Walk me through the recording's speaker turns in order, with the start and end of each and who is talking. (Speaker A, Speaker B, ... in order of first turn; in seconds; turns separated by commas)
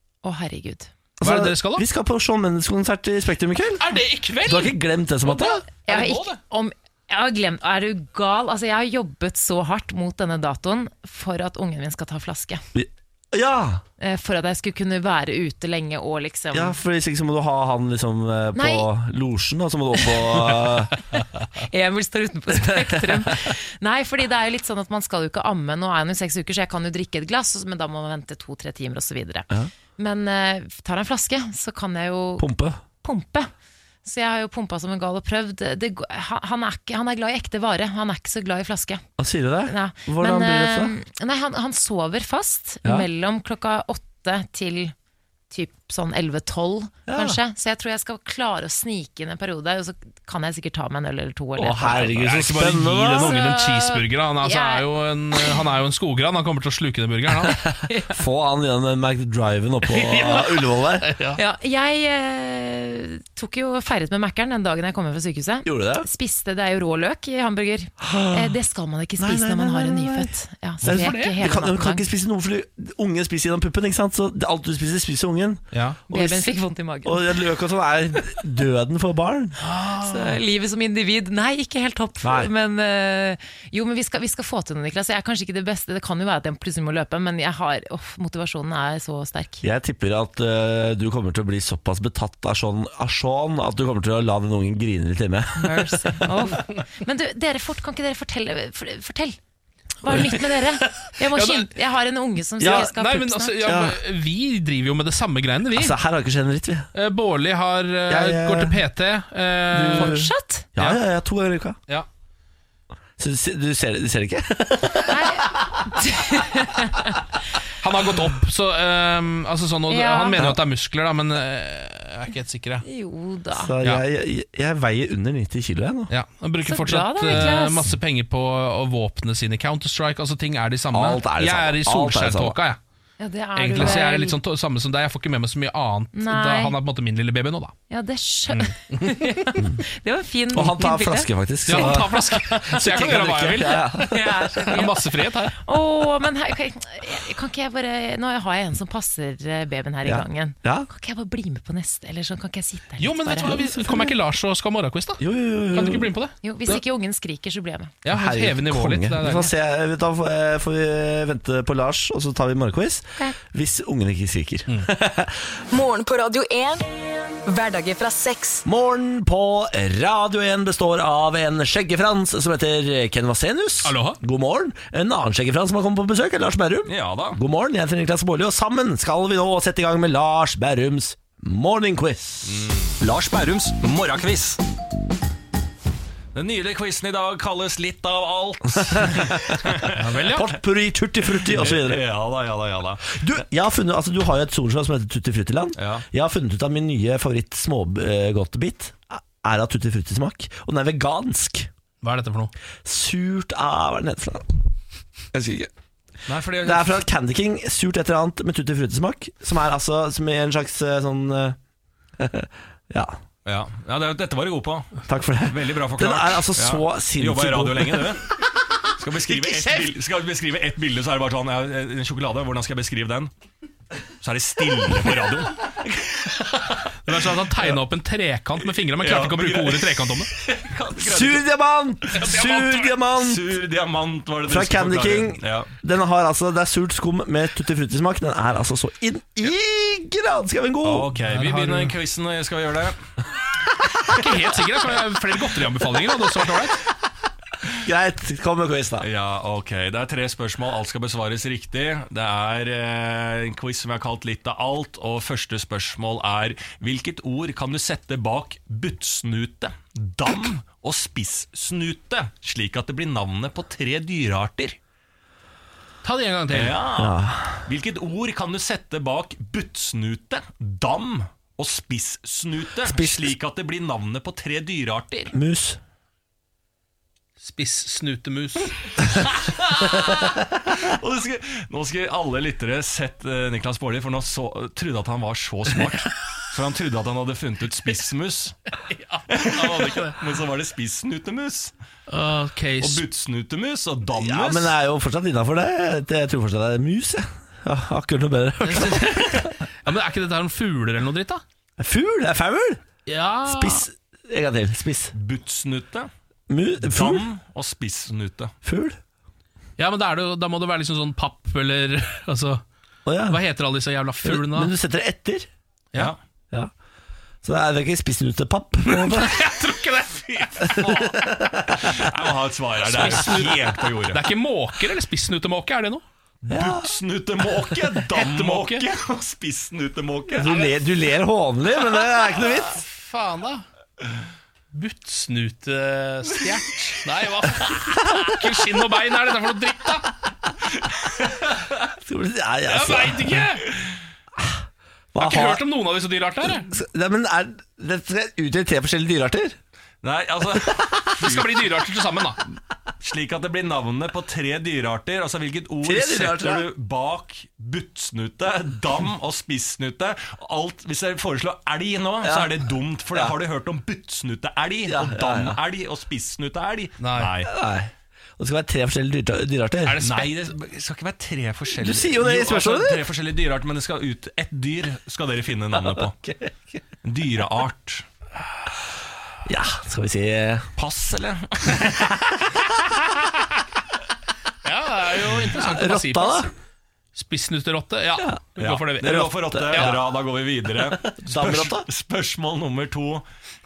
Speaker A: 0.2-0.9, Speaker B: 1.2-3.8, Speaker C: 1.2-1.8, Speaker C: 3.8-6.4, Speaker B: 4.4-5.6, Speaker A: 5.8-12.6, Speaker B: 12.7-13.8, Speaker A: 14.0-16.8, Speaker B: 16.5-20.9, Speaker A: 18.5-18.9, Speaker A: 21.5-32.5, Speaker B: 22.6-23.0, Speaker B: 32.4-32.8, Speaker A: 33.0-33.5, Speaker A: 34.0-39.0, Speaker B: 39.2-41.0, Speaker A: 39.6-44.9, Speaker A: 45.5-52.1, Speaker B: 47.1-47.4, Speaker B: 51.5-53.4, Speaker C: 51.9-57.6, Speaker A: 53.2-55.6, Speaker B: 57.6-61.1, Speaker A: 57.9-58.2, Speaker C: 59.9-61.4, Speaker A: 61.4-72.1, Speaker B: 65.6-66.1, Speaker B: 68.0-68.5, Speaker B: 69.2-70.3, Speaker C: 70.8-71.4, Speaker B: 70.8-76.5, Speaker C: 75.7-76.0, Speaker A: 76.1-77.5, Speaker B: 77.0-79.6, Speaker C: 79.6-80.4, Speaker A: 79.8-89.6, Speaker B: 82.2-82.5, Speaker B: 89.6-96.2, Speaker A: 95.6-99.4, Speaker A: 100.0-103.7, Speaker C: 100.1-101.7, Speaker B: 102.6-102.9, Speaker C: 102.7-106.0, Speaker B: 103.6-104.0, Speaker B: 105.7-106.9, Speaker C: 106.9-110.2, Speaker B: 108.1-108.8, Speaker B: 109.7-111.8, Speaker A: 109.9-110.7, Speaker B: 113.2-115.7, Speaker A: 115.0-117.2, Speaker C: 117.8-122.8, Speaker A: 119.9-120.5, Speaker A: 122.8-123.7, Speaker B: 123.5-126.1, Speaker C: 126.1-132.8, Speaker A: 126.6-127.9, Speaker B: 130.9-132.5, Speaker A: 133.2-134.4, Speaker C: 133.6-137.8, Speaker A: 136.1-136.8, Speaker A: 137.9-142.4, Speaker C: 138.5-139.4, Speaker B: 140.5-144.3, Speaker C: 141.7-145.6, Speaker A: 144.0-154.1, Speaker B: 150.0-150.9, Speaker C: 153.0-155.2, Speaker B: 153.4-154.1, Speaker B: 155.2-156.1, Speaker C: 155.7-156.8, Speaker A: 156.4-157.9, Speaker C: 158.0-159.5, Speaker B: 158.1-165.3, Speaker D: 165.7-166.8, Speaker D: 167.4-168.6, Speaker B: 168.7-182.7, Speaker C: 173.8-174.2, Speaker E: 176.9-177.4, Speaker E: 182.5-184.6, Speaker E: 186.3-190.2, Speaker B: 188.8-189.6, Speaker C: 189.9-190.5, Speaker B: 190.3-192.0, Speaker E: 191.4-193.2, Speaker B: 193.1-201.7, Speaker E: 195.8-196.0, Speaker C: 202.0-202.5, Speaker B: 202.8-204.5, Speaker B: 205.3-205.7, Speaker E: 206.3-207.0, Speaker B: 206.6-211.6, Speaker B: 212.2-213.2, Speaker E: 213.4-218.2, Speaker B: 215.1-218.1, Speaker E: 219.0-223.3, Speaker B: 219.3-219.9, Speaker E: 224.2-225.6, Speaker C: 227.0-230.3, Speaker E: 228.9-231.4, Speaker B: 231.0-233.6, Speaker C: 232.2-233.0, Speaker E: 233.1-235.7, Speaker B: 234.5-241.1, Speaker E: 240.8-243.0, Speaker C: 241.1-242.0, Speaker C: 244.1-246.8, Speaker B: 247.8-249.1, Speaker E: 249.0-264.8, Speaker C: 266.0-266.8, Speaker E: 266.5-275.3, Speaker B: 266.9-267.6, Speaker B: 272.8-273.3, Speaker B: 275.3-275.8, Speaker C: 277.4-280.0, Speaker E: 280.8-288.6, Speaker C: 288.9-290.2, Speaker E: 289.3-291.7, Speaker C: 292.1-293.0, Speaker E: 292.8-294.7, Speaker B: 294.1-299.6, Speaker C: 298.6-301.4, Speaker B: 301.8-302.8, Speaker C: 303.1-303.8, Speaker B: 303.4-305.1, Speaker E: 305.1-306.1, Speaker B: 306.5-307.2, Speaker E: 306.8-308.5, Speaker B: 308.6-309.0, Speaker C: 309.8-312.6, Speaker B: 313.1-313.4, Speaker C: 313.3-314.7, Speaker B: 314.2-315.5, Speaker B: 317.4-319.4, Speaker C: 318.9-321.4, Speaker B: 321.1-321.9, Speaker E: 321.8-324.2, Speaker C: 322.8-326.0, Speaker E: 326.4-330.6, Speaker B: 326.5-326.9, Speaker C: 328.1-328.9, Speaker B: 330.4-332.8, Speaker C: 332.0-333.6, Speaker C: 334.7-340.1, Speaker B: 342.0-343.4, Speaker C: 342.7-343.7, Speaker B: 345.1-345.6, Speaker C: 345.2-346.7, Speaker B: 346.6-349.6, Speaker E: 350.0-351.6, Speaker C: 351.2-352.4, Speaker E: 353.0-367.5, Speaker B: 355.8-356.7, Speaker B: 362.2-362.6, Speaker B: 364.9-365.6, Speaker C: 367.0-367.3, Speaker B: 367.4-370.0, Speaker C: 369.9-370.4, Speaker E: 370.0-376.1, Speaker B: 371.8-373.0, Speaker B: 375.9-376.6, Speaker E: 377.0-378.1, Speaker B: 379.4-380.7, Speaker E: 380.8-382.0, Speaker C: 384.6-386.4, Speaker B: 385.5-386.5, Speaker C: 387.1-390.0, Speaker E: 388.6-393.2, Speaker B: 389.0-390.0, Speaker B: 391.2-391.9